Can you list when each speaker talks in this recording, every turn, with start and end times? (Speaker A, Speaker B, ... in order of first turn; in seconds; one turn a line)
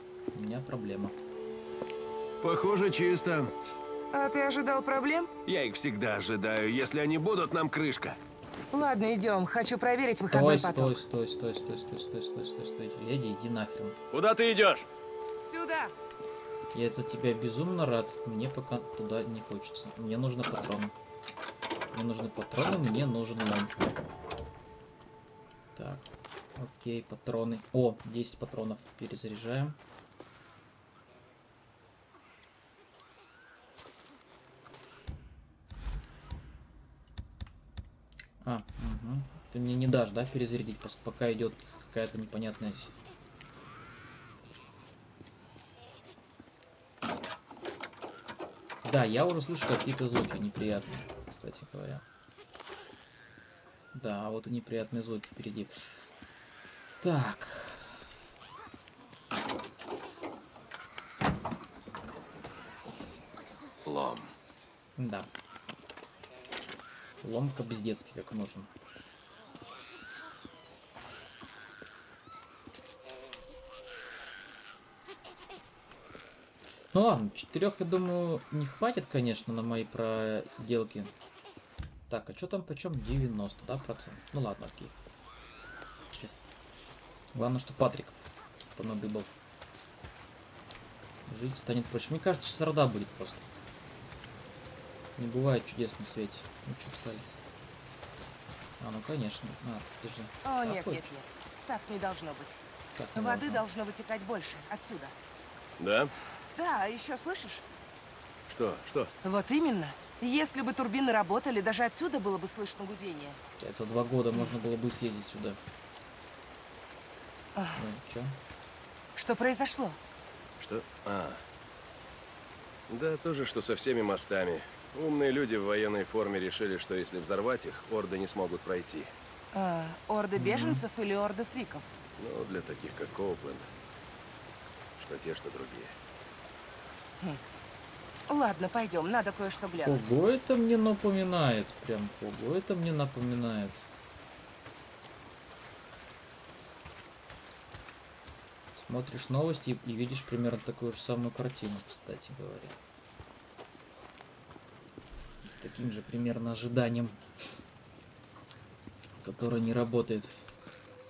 Speaker A: 0.3-1.2
Speaker B: 2.4-3.5
Speaker C: 4.1-5.3
Speaker B: 5.5-8.2
Speaker C: 8.7-11.0
Speaker A: 10.3-14.0
Speaker B: 14.1-14.9
Speaker C: 15.4-15.9
Speaker A: 16.7-20.9
Speaker A: 21.9-23.8
Speaker A: 25.8-29.8
Speaker A: 38.4-42.9
Speaker A: 48.8-52.0
Speaker A: 53.9-56.0
Speaker A: 57.0-58.0
Speaker B: 63.9-64.3
Speaker A: 65.0-65.3
Speaker A: 67.2-68.7
Speaker A: 76.9-81.1
Speaker A: 82.1-85.0
Speaker A: 87.3-89.3
Speaker A: 91.3-93.5
Speaker A: 95.2-97.3
Speaker A: 98.8-101.0
Speaker C: 100.5-102.6
Speaker A: 103.0-103.6
Speaker C: 103.2-105.1
Speaker B: 105.8-106.1
Speaker C: 106.6-107.6
Speaker B: 108.5-109.1
Speaker C: 109.2-113.4
Speaker A: 113.6-115.6
Speaker A: 117.8-118.4
Speaker C: 119.2-120.0
Speaker B: 120.6-121.4
Speaker B: 122.9-129.1
Speaker C: 129.5-131.9
Speaker A: 130.4-130.8
Speaker B: 132.2-133.7
Speaker B: 135.0-136.0
Speaker C: 138.3-140.1
Speaker A: 139.8-143.9
Speaker A: 148.8-152.8
Speaker A: 155.4-157.2
Speaker A: 159.2-160.4